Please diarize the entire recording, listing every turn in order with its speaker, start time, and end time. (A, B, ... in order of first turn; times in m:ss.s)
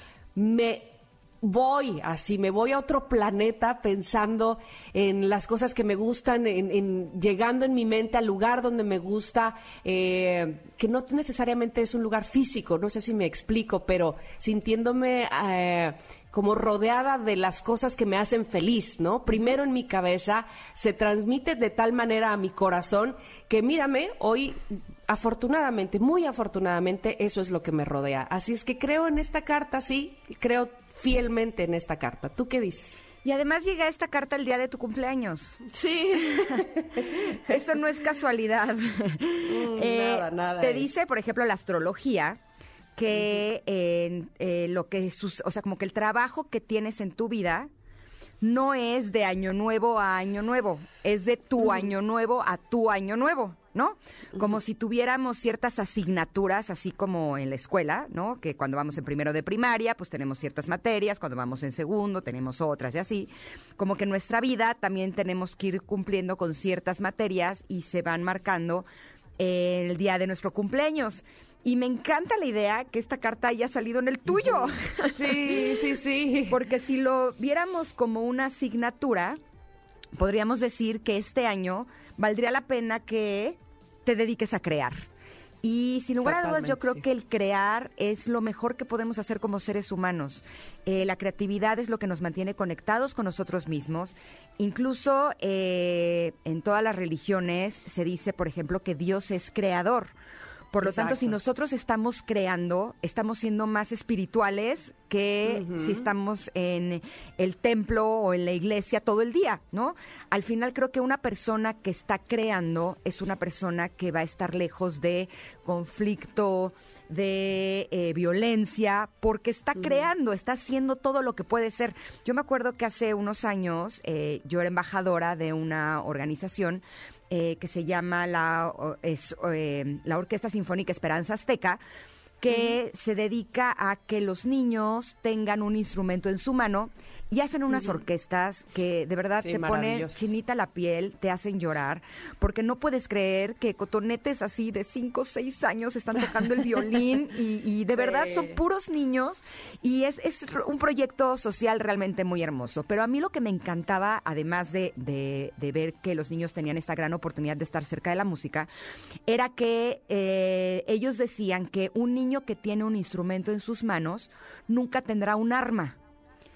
0:00.3-0:24.5 A
0:25.1-0:33.0 A
0:33.2-0:35.6 B
0:35.7-0:37.4 A
0:36.3-0:36.6 B
0:37.2-0:42.4 B
0:39.4-0:41.0 A
0:43.0-0:47.7 B
0:48.4-1:08.8 B
1:09.4-1:15.7 B
1:15.1-1:16.6 A
1:16.5-1:19.4 B
1:20.2-1:25.0 B
1:25.6-1:40.1 B
1:26.2-1:27.0 A
1:40.7-2:11.8 B
1:40.8-1:41.4 A
1:45.4-1:46.0 A
2:12.4-2:38.7 B
2:19.4-2:20.3 A
2:27.9-2:28.6 A
2:39.3-2:46.0 B